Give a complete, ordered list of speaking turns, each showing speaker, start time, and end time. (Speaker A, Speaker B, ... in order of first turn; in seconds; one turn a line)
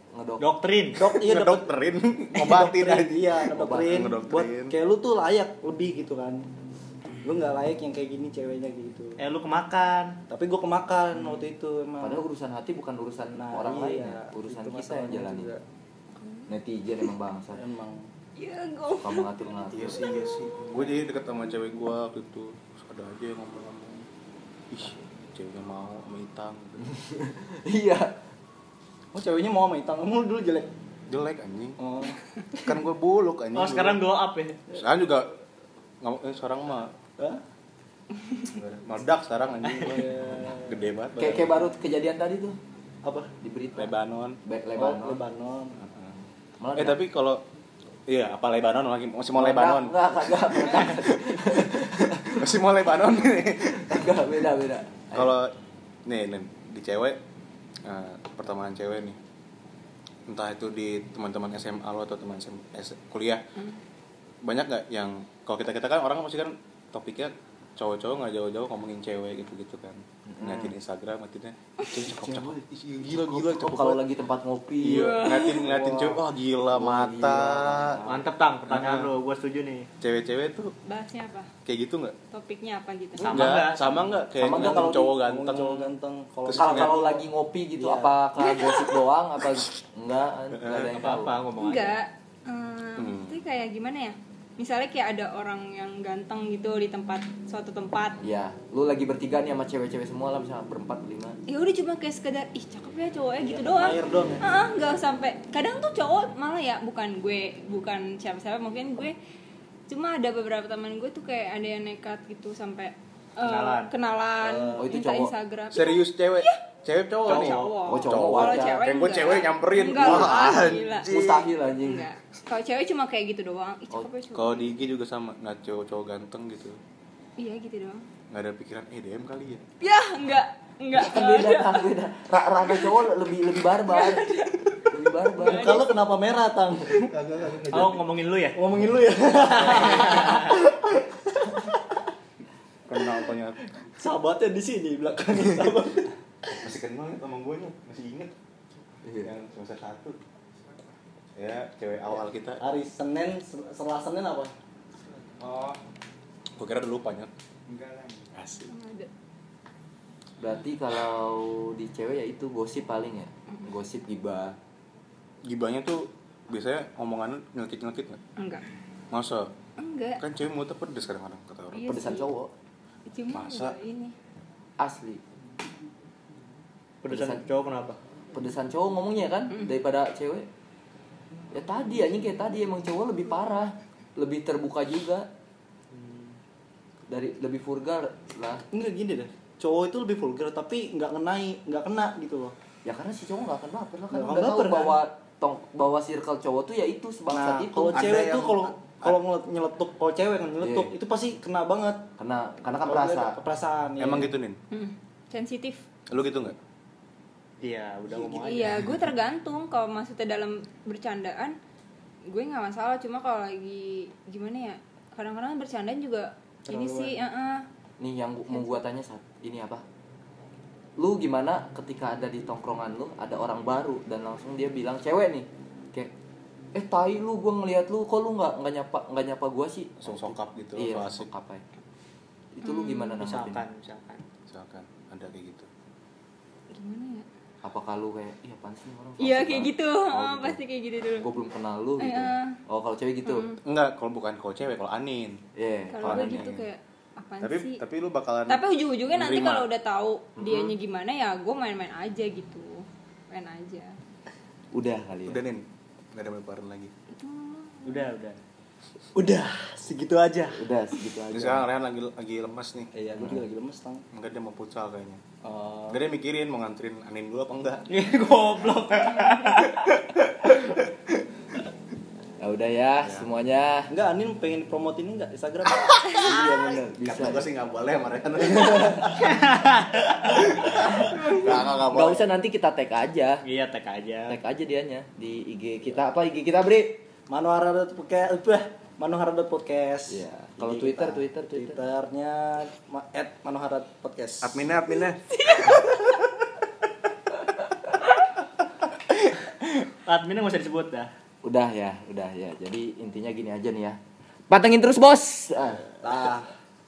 Speaker A: 0.1-0.4
Speaker B: 0.4-1.1
Speaker C: 1.0-1.7
Speaker D: 1.1-4.8
Speaker C: 2.3-6.5
Speaker A: 3.5-4.0
Speaker C: 7.2-9.2
Speaker B: 9.2-10.2
Speaker C: 10.3-12.2
Speaker A: 12.0-15.5
Speaker C: 13.3-15.6
Speaker E: 16.1-16.5
Speaker A: 16.5-17.6
Speaker C: 17.5-18.1
Speaker E: 18.4-20.5
Speaker A: 19.0-20.0
Speaker D: 19.7-24.1
Speaker D: 24.7-26.9
Speaker A: 26.8-28.2
Speaker C: 29.1-30.7
Speaker D: 31.1-31.8
Speaker C: 31.8-32.2
Speaker D: 32.6-34.0
Speaker B: 33.5-34.6
Speaker D: 34.7-35.3
Speaker D: 36.0-36.9
Speaker D: 38.5-41.5
Speaker C: 39.8-40.8
Speaker A: 41.2-42.6
Speaker C: 43.0-43.3
Speaker A: 43.4-43.9
Speaker D: 43.8-44.4
Speaker A: 44.5-45.2
Speaker C: 44.8-45.8
Speaker D: 45.8-46.1
Speaker A: 46.6-47.0
Speaker D: 46.8-47.4
Speaker D: 48.1-54.2
Speaker A: 49.3-52.7
Speaker A: 53.6-55.3
Speaker D: 55.1-55.5
Speaker D: 56.1-57.2
Speaker D: 57.9-59.2
Speaker D: 60.3-63.4
Speaker D: 64.4-74.0
Speaker A: 70.3-70.7
Speaker A: 72.1-72.6
Speaker A: 73.1-78.3
Speaker D: 74.8-78.0
Speaker E: 74.9-75.6
Speaker B: 78.0-79.9
Speaker D: 78.7-79.1
Speaker D: 80.0-80.7
Speaker E: 80.9-81.5
Speaker D: 81.7-82.2
Speaker E: 82.3-83.4
Speaker B: 83.2-84.2
Speaker D: 83.2-85.9
Speaker A: 84.4-85.2
Speaker C: 84.5-87.3
Speaker D: 86.5-87.0
Speaker A: 86.5-91.3
Speaker C: 87.8-88.1
Speaker E: 88.4-89.0
Speaker D: 90.5-90.9
Speaker B: 90.9-92.0
Speaker E: 91.6-98.2
Speaker D: 93.0-93.4
Speaker A: 98.2-101.4
Speaker E: 101.5-109.2
Speaker C: 103.4-104.4
Speaker E: 109.9-116.6
Speaker B: 113.4-113.9
Speaker C: 114.4-114.9
Speaker A: 114.8-115.3
Speaker D: 115.7-121.5
Speaker B: 117.3-117.8
Speaker E: 117.3-121.2
Speaker A: 117.9-118.8
Speaker A: 120.0-120.5
Speaker A: 121.0-122.1
Speaker E: 121.8-124.8
Speaker D: 124.3-126.8
Speaker E: 127.4-128.1
Speaker D: 128.3-129.6
Speaker E: 129.8-131.9
Speaker A: 130.9-135.8
Speaker E: 132.6-132.9
Speaker E: 133.9-134.8
Speaker E: 135.3-135.9
Speaker C: 135.4-138.0
Speaker B: 137.7-138.6
Speaker C: 138.6-141.6
Speaker B: 140.2-140.5
Speaker D: 142.9-143.7
Speaker C: 144.0-146.7
Speaker D: 146.6-148.3
Speaker A: 149.1-149.3
Speaker D: 149.2-150.2
Speaker D: 151.4-152.6
Speaker C: 152.6-154.5
Speaker C: 155.4-155.8
Speaker D: 156.6-157.3
Speaker C: 157.7-158.3
Speaker D: 158.3-158.7
Speaker E: 158.7-159.1
Speaker A: 160.4-164.6
Speaker D: 165.4-168.2
Speaker E: 168.4-168.6
Speaker D: 169.1-169.5
Speaker E: 169.8-170.2
Speaker D: 170.2-171.9
Speaker E: 171.7-172.3
Speaker A: 171.9-172.5
Speaker E: 173.1-174.1
Speaker D: 173.3-173.8
Speaker A: 174.8-175.2
Speaker B: 177.0-178.0
Speaker A: 177.1-177.4
Speaker A: 178.3-180.5
Speaker A: 181.5-185.3
Speaker B: 185.9-186.3
Speaker A: 187.1-188.6
Speaker C: 188.7-192.5
Speaker A: 192.8-198.1
Speaker C: 194.1-195.0
Speaker C: 197.3-202.1
Speaker D: 197.9-199.2
Speaker A: 200.6-200.9
Speaker A: 202.2-203.3
Speaker C: 202.8-204.3
Speaker D: 204.0-204.6
Speaker E: 204.7-205.8
Speaker D: 206.1-206.6
Speaker B: 207.6-208.8
Speaker C: 208.1-208.5
Speaker E: 208.4-211.6
Speaker E: 212.3-217.7
Speaker C: 216.7-217.2
Speaker A: 218.0-219.8
Speaker A: 221.0-226.1
Speaker A: 226.7-231.6
Speaker D: 230.0-231.3
Speaker A: 232.6-233.6
Speaker E: 232.6-233.2
Speaker B: 233.2-234.2
Speaker D: 234.5-235.7
Speaker E: 236.7-237.3
Speaker A: 237.6-239.7
Speaker E: 239.2-241.3
Speaker D: 240.1-240.6
Speaker A: 241.2-243.5
Speaker E: 242.0-242.6
Speaker E: 243.2-243.6
Speaker D: 243.6-245.4
Speaker A: 245.6-246.5
Speaker E: 245.9-247.8
Speaker D: 246.0-246.7
Speaker D: 247.4-249.7
Speaker E: 248.5-254.0
Speaker A: 250.4-250.8
Speaker A: 254.7-255.4
Speaker D: 255.3-255.6
Speaker D: 256.1-256.9
Speaker E: 257.1-258.1
Speaker B: 257.9-258.4
Speaker C: 259.1-260.6
Speaker A: 260.5-261.7
Speaker D: 261.3-262.9
Speaker C: 262.9-264.0
Speaker A: 263.2-263.4
Speaker D: 264.1-265.2
Speaker C: 265.4-266.0
Speaker D: 265.9-267.9
Speaker B: 267.9-269.8
Speaker D: 270.1-270.8
Speaker A: 272.4-273.9
Speaker C: 273.9-275.9
Speaker A: 276.1-277.5
Speaker D: 276.3-279.4
Speaker A: 278.7-279.1
Speaker B: 279.1-280.0
Speaker D: 280.0-282.3
Speaker A: 280.6-283.4
Speaker B: 283.4-284.4
Speaker A: 284.3-287.0
Speaker C: 287.3-294.8
Speaker A: 290.1-291.8
Speaker D: 294.4-295.2
Speaker E: 295.3-295.9
Speaker B: 300.1-301.1
Speaker A: 301.4-304.0
Speaker A: 304.5-305.9
Speaker C: 306.0-306.5